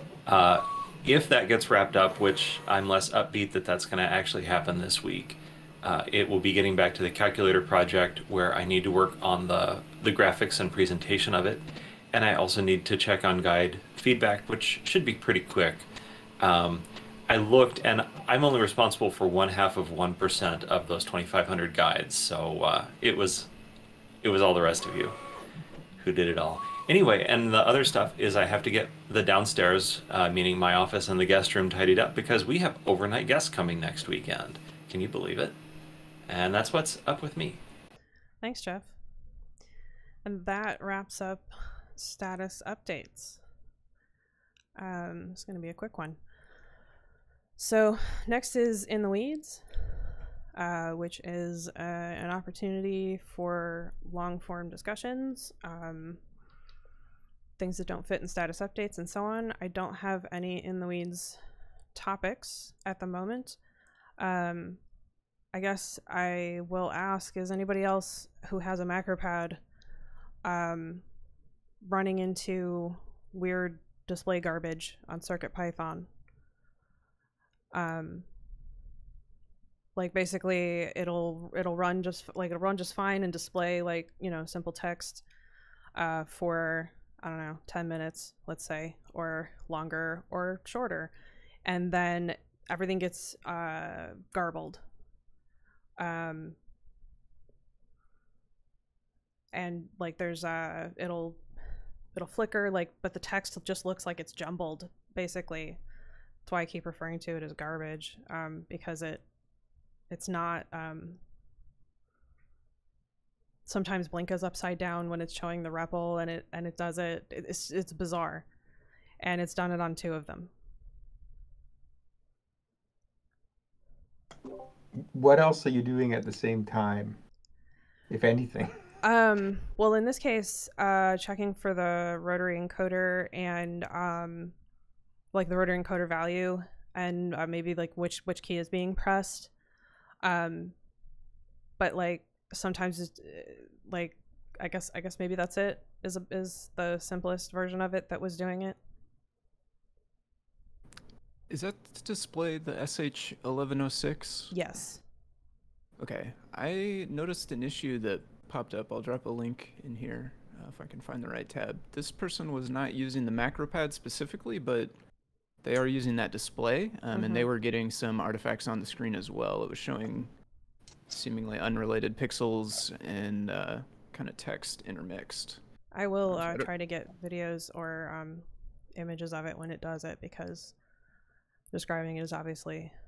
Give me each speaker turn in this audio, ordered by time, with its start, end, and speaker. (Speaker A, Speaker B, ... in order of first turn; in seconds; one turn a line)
Speaker A: 0.3-15.9
Speaker A: 16.4-23.5
Speaker A: 24.2-25.1
Speaker A: 26.0-35.5
Speaker A: 36.3-37.6
Speaker B: 38.4-38.9
Speaker B: 40.2-43.4
Speaker B: 44.8-46.2
Speaker B: 47.6-56.2
Speaker B: 57.6-61.4
Speaker B: 62.0-63.6
Speaker B: 64.2-64.8
Speaker B: 65.5-69.6
Speaker B: 70.4-71.0
Speaker B: 71.8-76.1
Speaker B: 77.7-78.2
Speaker B: 80.0-85.2
Speaker B: 86.0-91.1
Speaker B: 91.7-94.8
Speaker B: 96.0-96.6
Speaker B: 99.5-101.4
Speaker B: 102.1-105.8
Speaker B: 106.5-109.2
Speaker B: 110.1-111.2
Speaker B: 113.7-118.5
Speaker B: 119.2-120.5
Speaker C: 125.0-127.2
Speaker C: 128.1-128.8
Speaker B: 129.0-134.5
Speaker B: 135.3-139.5
Speaker B: 140.2-140.7
Speaker B: 141.8-148.8
Speaker D: 151.5-154.5
Speaker B: 154.5-155.0
Speaker D: 156.0-164.9
Speaker D: 165.6-170.3
Speaker B: 167.1-167.5
Speaker D: 171.1-175.6
Speaker B: 175.9-178.4
Speaker D: 176.3-176.7
Speaker B: 179.0-180.8
Speaker B: 181.7-182.9